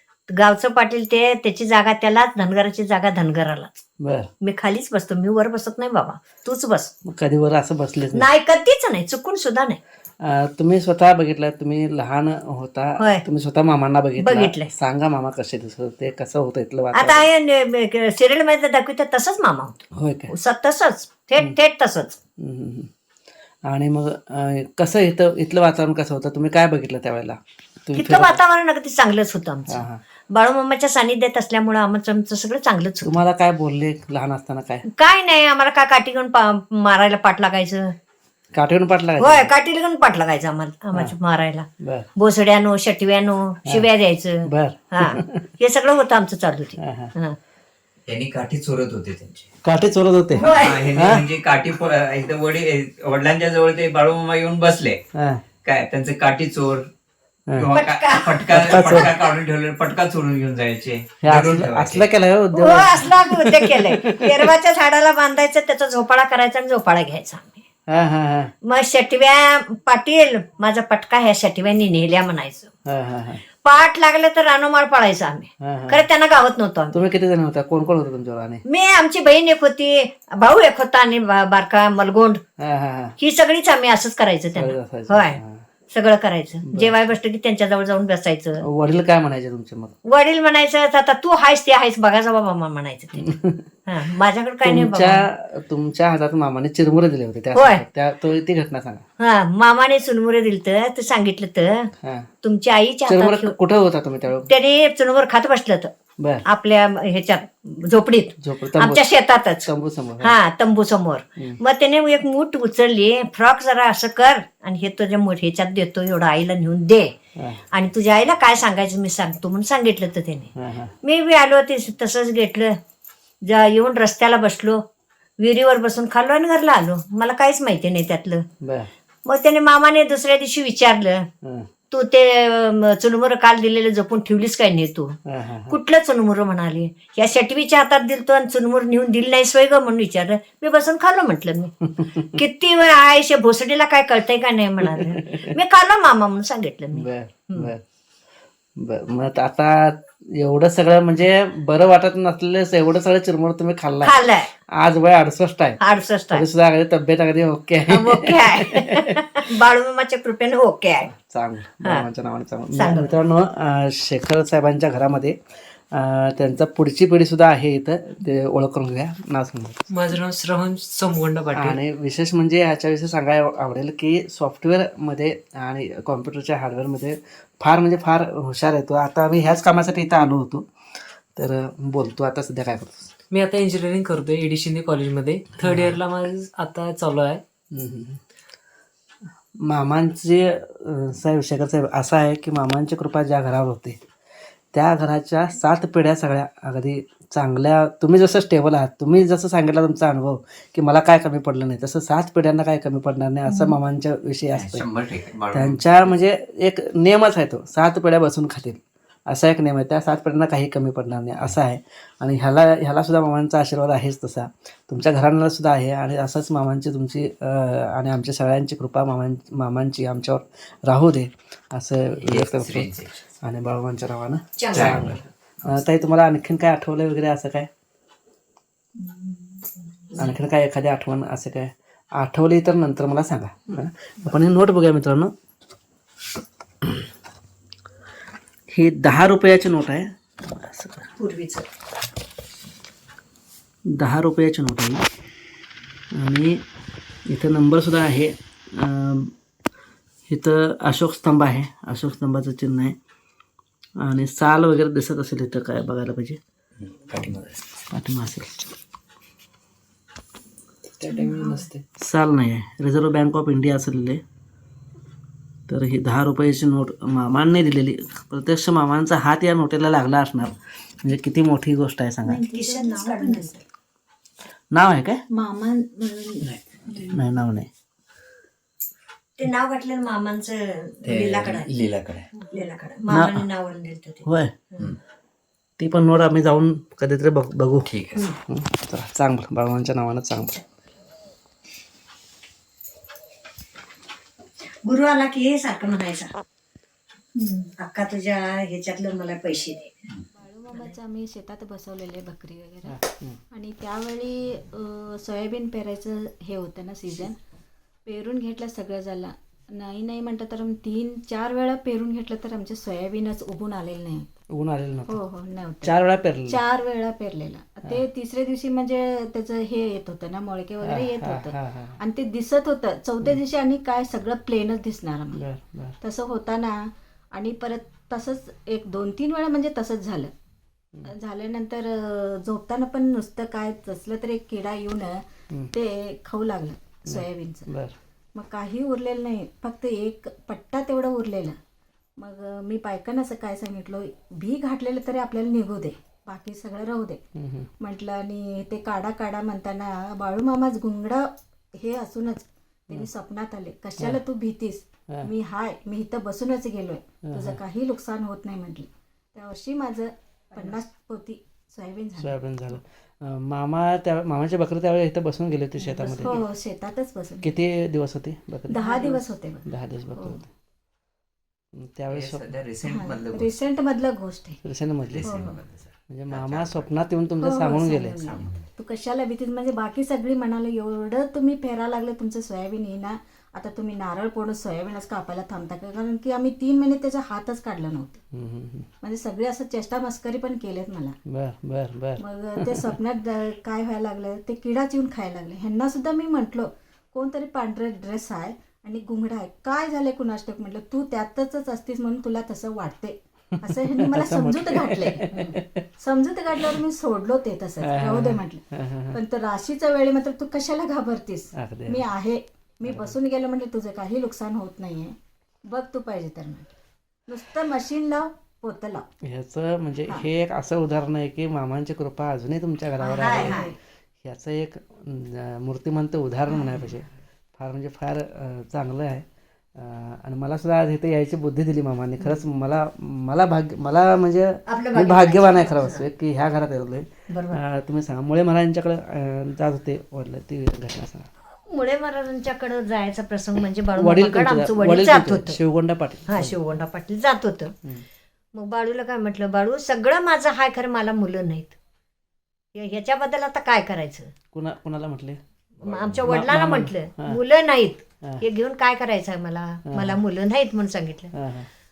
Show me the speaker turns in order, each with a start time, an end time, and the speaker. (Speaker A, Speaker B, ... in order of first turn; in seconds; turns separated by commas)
Speaker A: 0.3-3.8, Speaker B: 4.0-4.3, Speaker A: 4.4-6.9, Speaker B: 7.0-8.3, Speaker A: 8.1-9.8, Speaker B: 10.2-17.3, Speaker A: 13.0-13.2, Speaker A: 14.2-14.7, Speaker A: 16.9-22.2, Speaker B: 19.9-20.3, Speaker B: 22.4-22.9, Speaker B: 23.7-28.4, Speaker A: 27.9-33.1, Speaker B: 29.7-30.0, Speaker B: 33.0-34.9, Speaker A: 35.0-37.9, Speaker B: 38.5-39.5, Speaker A: 39.2-47.4, Speaker B: 41.8-42.1, Speaker B: 44.5-45.5, Speaker B: 46.8-47.1, Speaker C: 48.1-49.5, Speaker B: 49.6-51.3, Speaker A: 50.4-50.9, Speaker C: 50.5-55.0, Speaker B: 55.1-55.4, Speaker C: 55.6-56.9, Speaker C: 57.5-62.1, Speaker A: 57.7-59.0, Speaker B: 58.5-59.2, Speaker B: 61.2-64.5, Speaker A: 62.5-67.6, Speaker B: 67.9-68.5, Speaker A: 68.6-72.7, Speaker B: 72.8-73.4, Speaker A: 73.6-77.0, Speaker B: 75.6-76.0, Speaker B: 76.9-78.6, Speaker A: 78.7-82.4, Speaker B: 82.6-83.2, Speaker A: 83.2-85.4, Speaker B: 84.5-85.6, Speaker A: 85.9-88.6, Speaker B: 86.7-87.0, Speaker B: 88.6-89.9, Speaker A: 90.0-93.3, Speaker B: 93.2-93.7, Speaker A: 93.9-95.2, Speaker B: 94.6-99.0, Speaker A: 97.5-97.8, Speaker A: 99.2-101.9, Speaker B: 102.0-102.3, Speaker A: 102.4-103.5, Speaker B: 103.1-104.5, Speaker A: 104.5-105.9, Speaker B: 106.2-106.4, Speaker A: 106.4-109.7, Speaker B: 108.4-109.1, Speaker B: 109.6-110.3, Speaker A: 110.2-117.1, Speaker B: 117.3-117.6, Speaker A: 117.7-120.5, Speaker B: 120.5-120.9, Speaker A: 121.0-122.8, Speaker A: 123.4-124.8, Speaker A: 125.4-128.4, Speaker B: 128.6-128.9, Speaker A: 129.2-131.3, Speaker B: 131.4-131.7, Speaker A: 131.9-135.2, Speaker B: 135.2-135.8, Speaker A: 135.7-141.7, Speaker B: 141.9-142.4, Speaker A: 142.3-147.7, Speaker B: 144.8-145.6, Speaker B: 146.9-147.8, Speaker B: 148.8-154.2, Speaker A: 154.0-154.5, Speaker B: 154.7-155.8, Speaker A: 155.8-156.4, Speaker B: 156.3-159.2, Speaker A: 157.9-161.1, Speaker B: 161.1-169.8, Speaker A: 162.8-163.1, Speaker D: 169.9-171.8, Speaker B: 171.5-183.1, Speaker D: 183.3-187.4, Speaker B: 185.6-185.9, Speaker B: 187.7-188.2, Speaker B: 189.6-194.0, Speaker B: 194.7-204.8, Speaker A: 203.5-203.7, Speaker C: 204.5-205.8, Speaker B: 205.5-227.7, Speaker C: 222.2-223.1, Speaker A: 224.6-225.0, Speaker C: 224.7-225.2, Speaker A: 229.0-230.3, Speaker B: 230.1-235.3, Speaker B: 238.7-241.1, Speaker A: 241.2-241.7, Speaker B: 243.9-245.0, Speaker B: 246.1-246.6, Speaker B: 247.3-249.3, Speaker B: 250.3-253.0, Speaker B: 254.0-256.4, Speaker C: 256.9-257.6, Speaker B: 257.9-258.7, Speaker C: 261.0-261.8, Speaker A: 261.1-261.5, Speaker B: 261.9-264.2, Speaker B: 265.7-272.5, Speaker E: 272.4-273.6, Speaker A: 272.5-273.6, Speaker B: 274.7-275.2, Speaker E: 275.3-276.4, Speaker C: 276.4-277.1, Speaker B: 277.1-277.7, Speaker A: 279.4-281.7, Speaker C: 281.0-282.3, Speaker A: 282.5-284.9, Speaker B: 283.1-283.5, Speaker B: 284.2-284.5, Speaker B: 285.8-290.6, Speaker C: 287.9-288.3, Speaker A: 294.6-296.3, Speaker A: 297.4-300.1, Speaker E: 300.3-303.0, Speaker B: 302.8-303.4, Speaker E: 303.5-307.4, Speaker E: 308.1-314.3, Speaker B: 314.5-315.2, Speaker E: 315.1-315.9, Speaker B: 315.8-316.6, Speaker E: 316.5-325.4, Speaker B: 320.8-322.0, Speaker B: 325.3-326.0, Speaker E: 326.0-330.3, Speaker E: 331.0-337.7, Speaker B: 337.1-337.9, Speaker E: 338.3-341.6, Speaker E: 342.2-347.2, Speaker B: 347.3-347.7, Speaker E: 347.8-362.3, Speaker B: 357.3-357.6, Speaker B: 362.2-366.4, Speaker A: 366.0-366.4, Speaker E: 366.1-367.5, Speaker B: 367.4-370.5, Speaker E: 368.7-370.4, Speaker B: 371.7-372.5, Speaker C: 372.1-373.6, Speaker E: 372.8-374.6, Speaker B: 374.6-375.4, Speaker C: 375.1-376.9, Speaker E: 375.2-375.6, Speaker B: 376.1-378.3, Speaker E: 377.4-388.2, Speaker C: 378.2-378.6, Speaker B: 388.3-388.9, Speaker E: 389.0-391.2, Speaker B: 391.3-393.0, Speaker E: 392.2-405.3, Speaker B: 403.6-405.9, Speaker E: 406.0-415.1, Speaker B: 406.5-406.8, Speaker B: 407.8-409.2, Speaker B: 411.6-412.1, Speaker B: 412.9-413.1, Speaker E: 415.7-416.7, Speaker E: 417.3-419.1, Speaker B: 419.2-441.3, Speaker A: 423.0-423.7, Speaker E: 423.2-423.7, Speaker A: 434.7-436.1, Speaker A: 437.3-437.6, Speaker A: 441.6-445.6, Speaker B: 443.9-446.6, Speaker A: 446.3-447.7, Speaker A: 448.5-451.8, Speaker A: 452.7-454.3, Speaker B: 454.5-455.4, Speaker A: 455.8-461.3, Speaker C: 455.8-456.2, Speaker B: 456.2-457.4, Speaker B: 459.9-460.2, Speaker B: 461.3-461.7